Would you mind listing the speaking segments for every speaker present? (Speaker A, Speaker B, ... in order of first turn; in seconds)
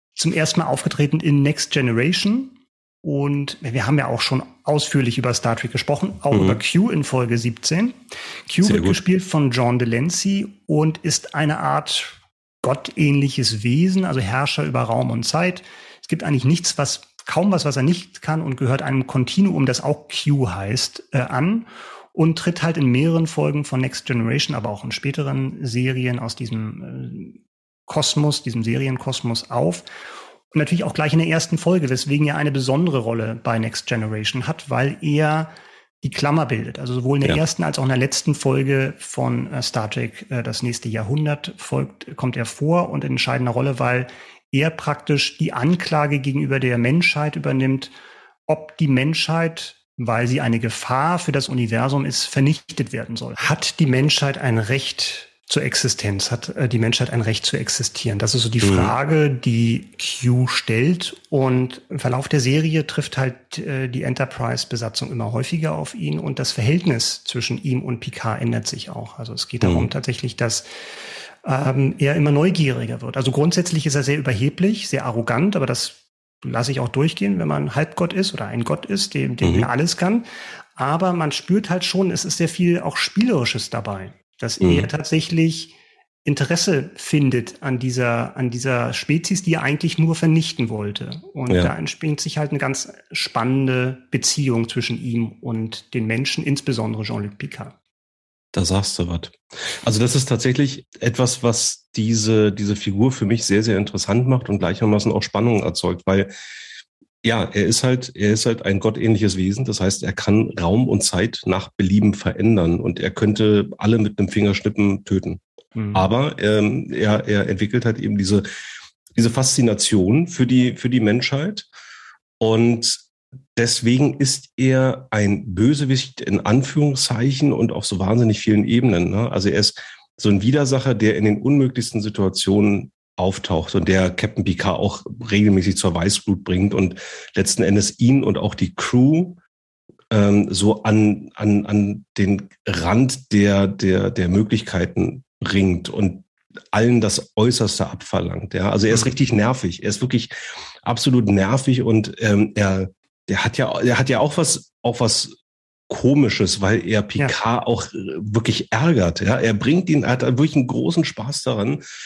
Speaker A: 0.1-29.8, 30.5-47.9, 48.5-70.7, 71.4-97.7, 115.8-116.1, 148.9-149.2
Speaker B: 6.3-6.6, 8.6-9.0, 58.6-58.9, 69.6-69.9, 79.4-79.7, 84.6-84.9, 91.5-91.7, 98.5-106.3, 107.2-115.4, 115.9-118.4, 119.1-121.7, 122.4-139.4, 140.1-155.3, 155.9-161.8